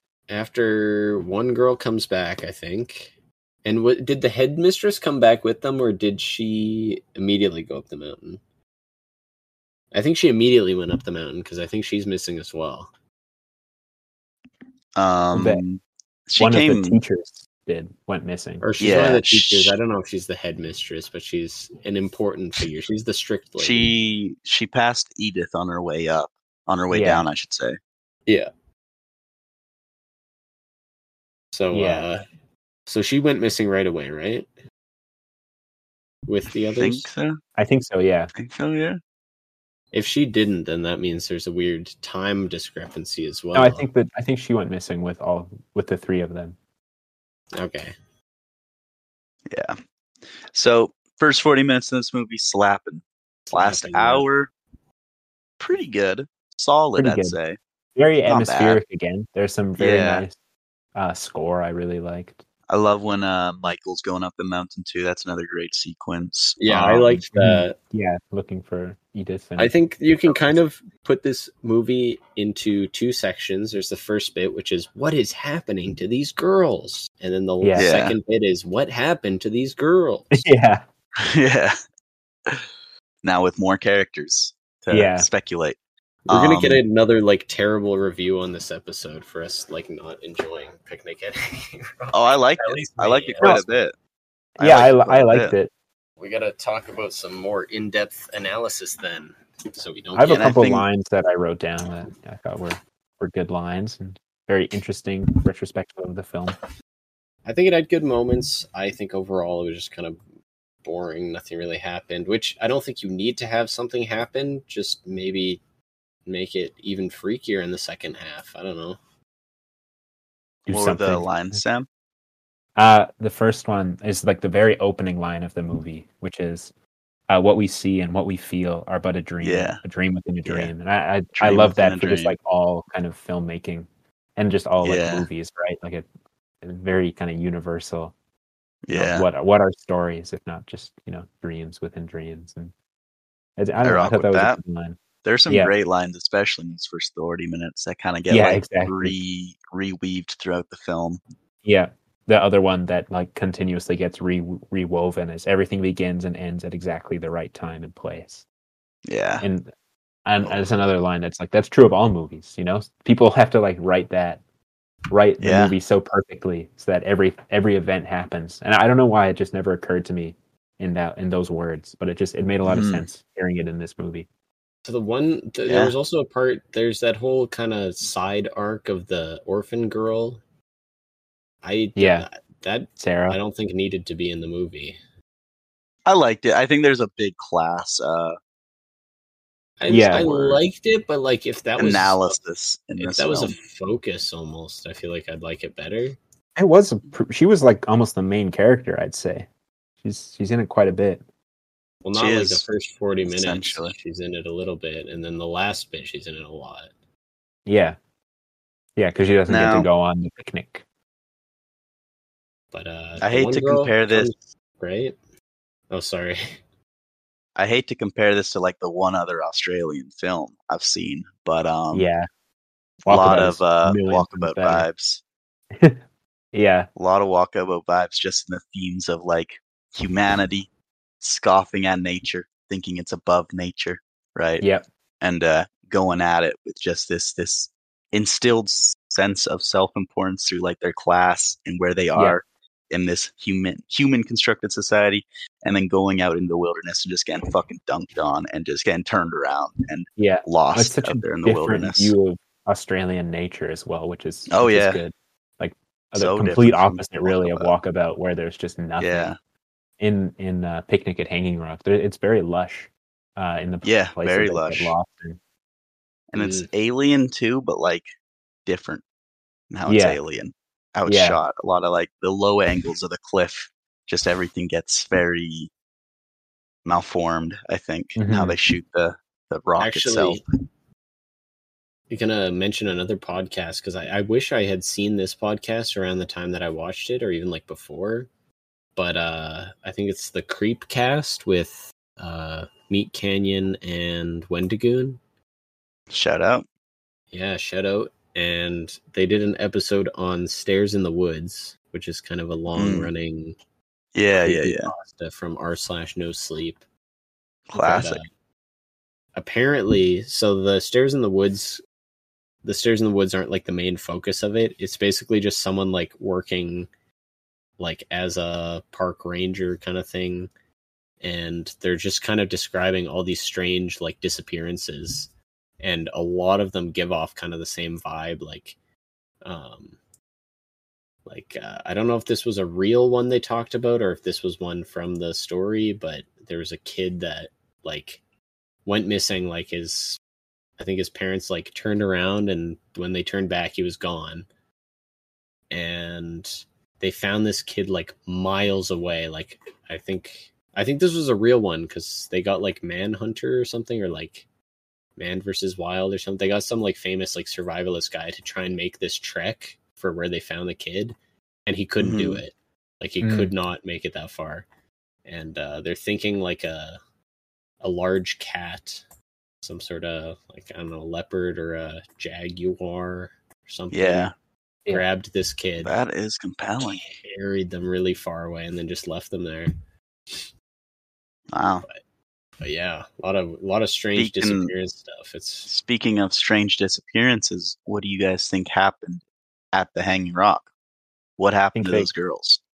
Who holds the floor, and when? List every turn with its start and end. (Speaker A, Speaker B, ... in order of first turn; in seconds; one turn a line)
Speaker A: 0.3-3.1
Speaker A: 3.6-8.4
Speaker A: 9.9-12.9
Speaker B: 15.0-17.0
Speaker C: 15.3-15.6
Speaker C: 16.4-18.6
Speaker A: 18.6-23.9
Speaker B: 18.8-19.8
Speaker B: 23.6-27.8
Speaker C: 26.9-27.3
Speaker A: 31.5-32.2
Speaker C: 31.7-32.1
Speaker A: 32.9-34.5
Speaker A: 36.3-37.1
Speaker B: 36.8-37.4
Speaker C: 37.6-38.3
Speaker B: 38.4-39.0
Speaker A: 39.9-43.9
Speaker C: 43.5-46.6
Speaker A: 47.5-47.9
Speaker B: 49.5-49.8
Speaker B: 50.4-54.5
Speaker A: 53.5-54.3
Speaker B: 55.6-57.6
Speaker C: 57.0-57.4
Speaker C: 58.0-60.4
Speaker B: 58.3-58.8
Speaker B: 59.8-60.2
Speaker C: 61.0-62.4
Speaker B: 62.7-67.2
Speaker A: 66.6-67.8
Speaker C: 67.3-69.7
Speaker A: 69.6-80.4
Speaker C: 77.6-77.9
Speaker B: 77.8-78.2
Speaker C: 80.3-80.8
Speaker B: 81.2-81.8
Speaker B: 83.2-86.8
Speaker C: 84.9-85.3
Speaker A: 86.3-93.6
Speaker B: 92.1-93.9
Speaker C: 94.6-95.7
Speaker B: 94.6-95.5
Speaker A: 96.2-100.5
Speaker C: 100.2-106.6
Speaker B: 100.3-100.9
Speaker A: 107.5-110.2
Speaker A: 110.8-115.6
Speaker A: 116.3-119.0
Speaker C: 120.7-121.6
Speaker B: 120.7-121.9
Speaker C: 122.8-126.7
Speaker C: 127.3-136.1
Speaker B: 129.4-129.8
Speaker B: 130.5-130.7
Speaker B: 131.3-132.3
Speaker B: 134.8-135.3
Speaker C: 136.6-138.1
Speaker B: 138.9-139.3
Speaker C: 138.9-142.7
Speaker C: 143.6-145.7
Speaker B: 143.8-144.6
Speaker B: 145.2-151.2
Speaker C: 148.3-149.2
Speaker C: 151.6-158.4
Speaker B: 159.1-159.4
Speaker C: 159.4-159.7
Speaker C: 160.3-164.4
Speaker C: 165.1-174.3
Speaker B: 165.4-165.8
Speaker B: 172.7-173.1
Speaker A: 174.8-180.4
Speaker B: 175.7-175.9
Speaker A: 181.6-185.0
Speaker C: 182.0-182.3
Speaker C: 183.0-183.4
Speaker B: 186.1-188.4
Speaker A: 189.8-192.4
Speaker B: 189.9-190.6
Speaker C: 189.9-190.3
Speaker B: 191.8-193.6
Speaker A: 193.0-196.2
Speaker C: 196.6-199.5
Speaker C: 200.0-201.2
Speaker A: 202.0-206.9
Speaker B: 202.1-202.7
Speaker B: 203.2-203.9
Speaker C: 207.7-208.0
Speaker C: 209.0-210.8
Speaker B: 209.5-209.9
Speaker A: 212.7-215.2
Speaker B: 213.2-214.3
Speaker A: 215.9-216.6
Speaker B: 217.6-222.1
Speaker C: 221.9-222.3
Speaker C: 223.1-224.9
Speaker B: 223.1-225.2
Speaker C: 226.5-226.9
Speaker B: 227.0-230.7
Speaker B: 231.2-234.6
Speaker B: 235.2-252.2
Speaker C: 242.2-242.4
Speaker C: 250.2-259.3
Speaker B: 254.5-255.0
Speaker B: 256.1-257.7
Speaker B: 259.0-259.4
Speaker C: 260.0-265.4
Speaker B: 263.8-264.9
Speaker B: 266.3-268.1
Speaker A: 266.4-266.7
Speaker B: 268.7-269.0
Speaker B: 269.7-275.7
Speaker C: 269.9-270.2
Speaker C: 271.1-271.4
Speaker B: 276.9-280.4
Speaker C: 278.2-278.6
Speaker A: 279.8-280.4
Speaker A: 282.1-288.3
Speaker A: 289.0-295.2
Speaker B: 296.1-296.7
Speaker A: 297.3-303.6
Speaker B: 302.7-303.1
Speaker B: 304.1-304.9
Speaker A: 304.4-306.8
Speaker B: 307.7-308.2
Speaker A: 307.7-308.3
Speaker A: 309.4-311.8
Speaker A: 312.6-316.9
Speaker A: 317.8-320.5
Speaker A: 321.2-328.8
Speaker A: 329.4-330.0
Speaker A: 331.3-338.2
Speaker A: 338.9-340.2
Speaker A: 340.8-344.5
Speaker A: 345.7-354.5
Speaker A: 355.2-364.7
Speaker B: 362.0-362.4
Speaker C: 363.2-363.5
Speaker A: 365.2-367.0
Speaker A: 367.8-369.0
Speaker A: 369.6-374.3
Speaker B: 373.9-374.3
Speaker A: 374.9-375.9
Speaker B: 375.8-377.0
Speaker A: 376.8-379.7
Speaker B: 381.5-381.8
Speaker A: 382.6-385.7
Speaker B: 384.2-384.7
Speaker B: 385.7-389.2
Speaker B: 389.7-390.7
Speaker B: 391.4-392.6
Speaker C: 391.8-392.1